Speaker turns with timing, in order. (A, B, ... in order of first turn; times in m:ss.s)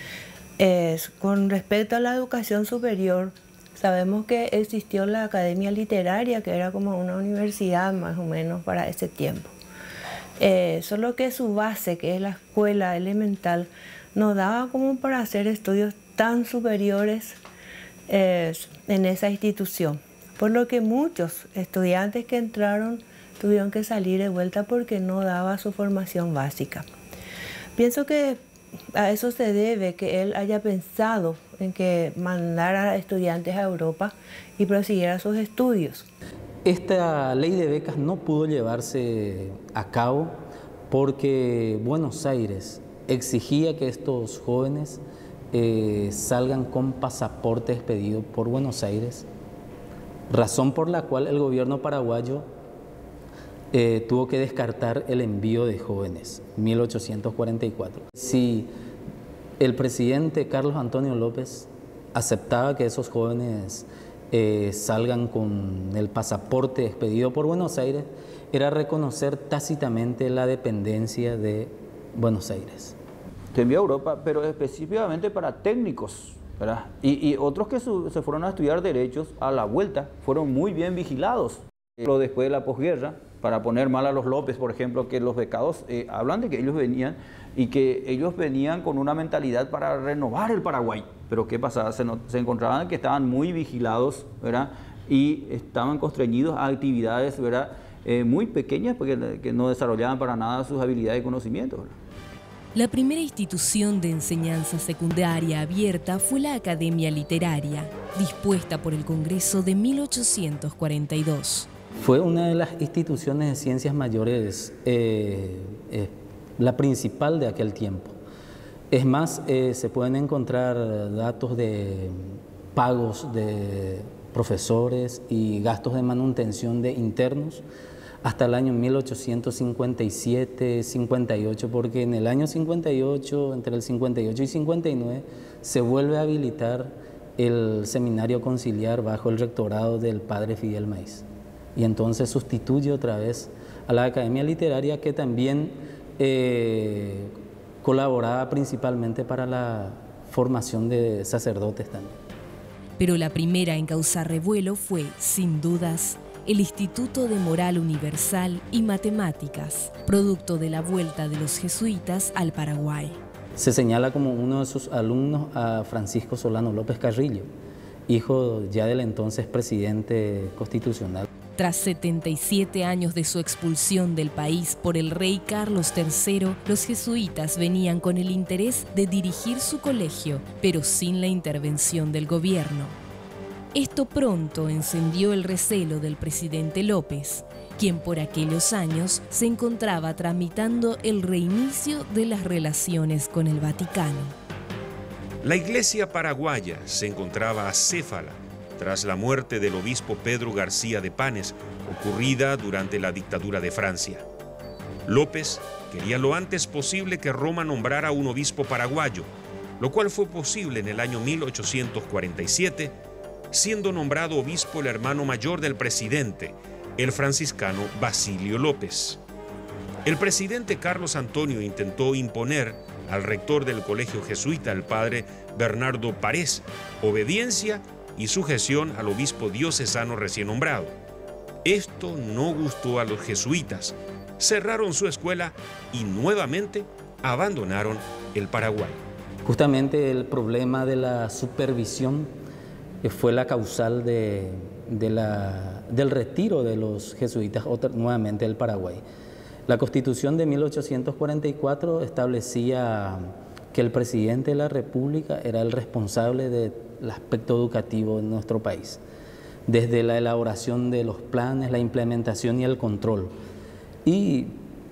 0:00.6-0:09.5 A
0:10.4-0:17.4 A
0:18.1-0:26.9 A
0:27.8-0:28.4 A
0:28.9-0:36.1 A
0:36.6-0:49.3 B
0:50.3-0:52.5 B
0:53.7-0:58.7 B
0:59.6-1:13.0 B
1:13.5-1:42.0 C
1:42.8-1:51.7 D
1:52.0-1:58.2 B
1:58.9-2:07.6 B
2:08.2-2:32.2 B
2:33.0-2:43.2 D
2:43.6-2:47.5 B
2:48.1-2:51.3 B
2:51.6-3:03.0 D
3:03.7-3:14.4 D
3:15.4-3:24.2 E
3:25.1-3:33.0 E
3:33.5-3:39.2 E
3:40.0-3:51.0 E
3:51.6-3:59.0 E
3:59.4-4:02.3 B
4:03.0-4:09.0 B
4:09.7-4:19.0 B
4:19.7-4:23.3 B
4:24.0-4:24.6 B